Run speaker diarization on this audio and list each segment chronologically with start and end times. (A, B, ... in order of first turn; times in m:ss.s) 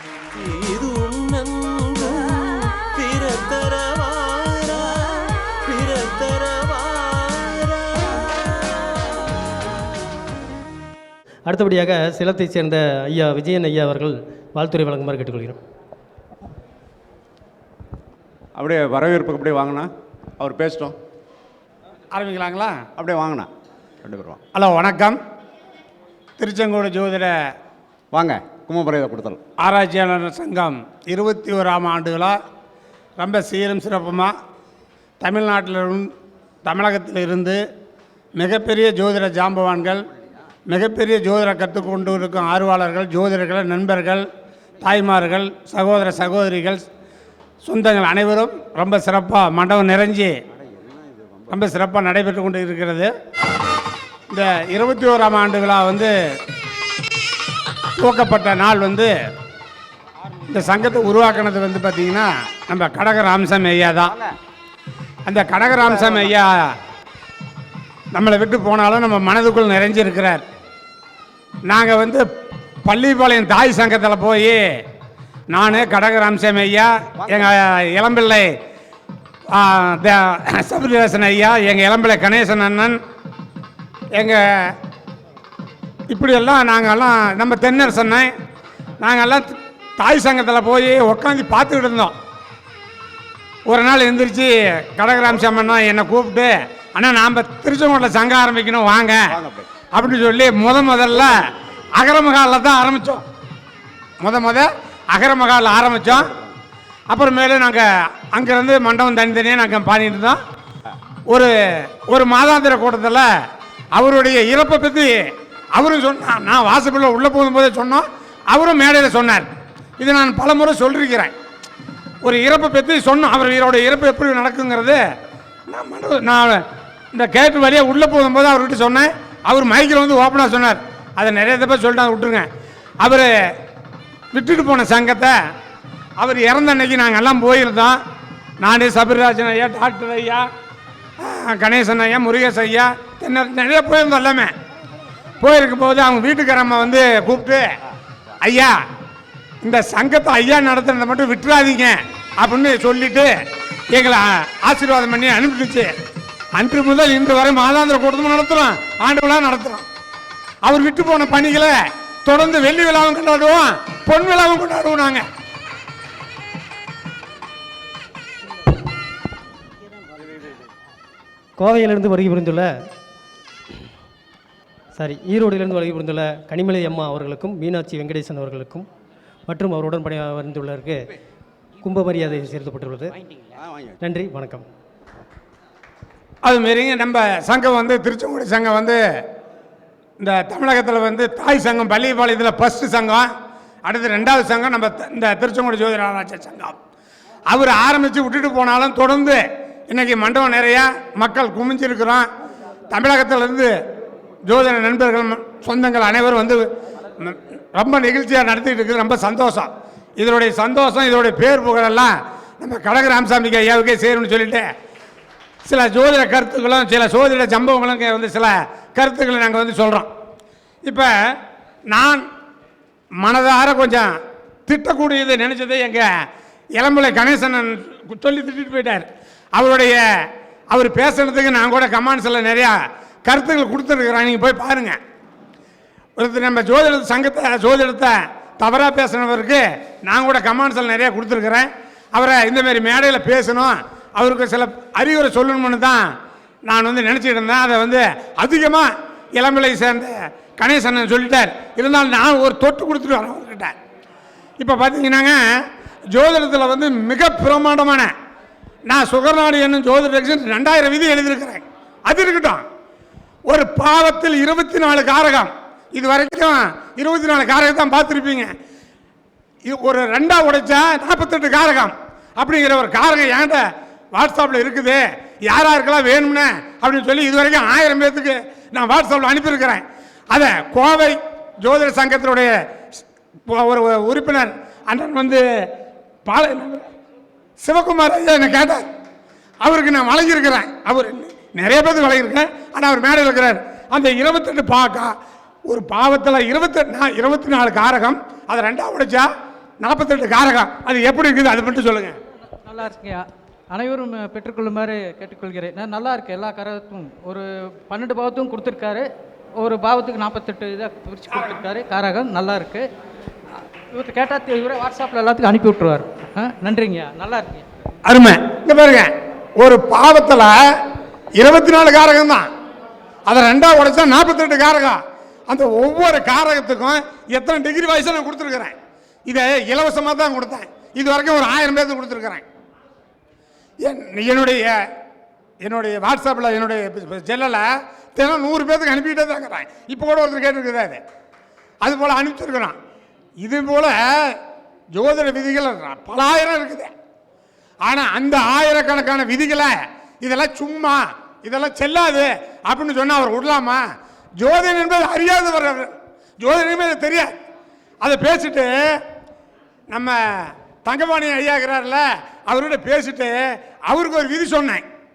0:00.6-0:08.2 A
0:11.5-0:15.6 B
0:18.6-0:21.0 C
0:22.1-0:22.8 D
0:23.0-0:23.5 C
0:24.0-0:24.4 C
0:24.5-0:25.2 D
0:26.4-0:27.3 D
0:28.1-0:29.4 C
0:29.6-0:32.4 D
0:33.2-0:34.3 D
0:35.2-0:36.1 D
0:36.6-0:37.6 D
0:38.4-0:40.0 D
0:40.7-0:44.2 D
0:44.8-0:46.9 D
0:47.6-0:50.3 D
0:51.5-0:53.1 D
0:54.3-0:56.1 D
0:58.0-0:59.1 D
1:00.5-1:04.1 D
1:05.2-1:06.6 D
1:08.1-1:10.4 D
1:11.6-1:12.2 D
1:12.8-1:14.6 D
1:15.5-1:18.5 D
1:19.5-1:22.9 D
1:24.1-1:24.7 D
1:26.1-1:28.3 D
1:29.0-1:32.1 D
1:33.7-1:39.3 D
1:39.3-1:39.7 C
1:39.9-1:41.3 D
1:42.0-1:43.2 D
1:44.2-1:46.3 D
1:46.2-1:46.5 C
1:47.1-1:50.4 D
1:51.3-1:53.2 D
1:53.9-1:59.5 D
2:00.0-2:01.3 D
2:02.2-2:05.0 D
2:05.7-2:06.6 D
2:07.1-2:12.5 D
2:13.0-2:13.3 D
2:14.3-2:15.3 D
2:16.2-2:18.0 D
2:18.6-2:20.4 D
2:21.2-2:24.5 D
2:25.4-2:27.6 D
2:28.4-2:28.7 D
2:29.6-2:33.3 D
2:33.9-2:35.9 D
2:36.5-2:39.8 D
2:40.6-2:41.7 D
2:42.2-2:45.2 D
2:51.6-2:52.7 B
2:55.0-2:58.9 B
2:59.5-3:01.1 B
3:01.8-3:03.2 B
3:04.0-3:04.6 B
3:06.4-3:09.0 D
3:10.2-3:13.3 D
3:13.8-3:16.8 D
3:17.5-3:22.3 D
3:22.9-3:23.7 D
3:24.4-3:26.6 D
3:27.2-3:34.7 D
3:35.6-3:40.1 D
3:40.8-3:41.4 D
3:41.9-3:42.2 D
3:43.2-3:44.1 D
3:44.7-3:46.1 D
3:46.7-3:50.0 D
3:50.7-3:55.0 D
3:56.2-4:06.0 D
4:06.6-4:13.7 D
4:14.6-4:18.1 D
4:18.9-4:22.6 D
4:23.5-4:28.5 D
4:29.6-4:45.4 D
4:46.3-4:46.8 D
4:47.6-4:48.8 D
4:49.6-4:55.1 D
4:55.7-4:59.3 D
4:59.8-5:02.2 D
5:02.6-5:09.1 E
5:09.6-5:12.8 E
5:13.9-5:17.6 E
5:18.0-5:20.8 D
5:21.4-5:22.5 D
5:23.3-5:25.0 D
5:25.5-5:28.7 D
5:29.3-5:32.4 D
5:33.8-5:34.8 D
5:35.6-5:41.0 D
5:41.8-5:42.8 D
5:43.4-5:44.4 D
5:44.9-5:46.9 D
5:47.8-5:53.8 D
5:54.4-5:57.3 D
5:58.0-5:58.7 D
5:59.9-6:04.8 D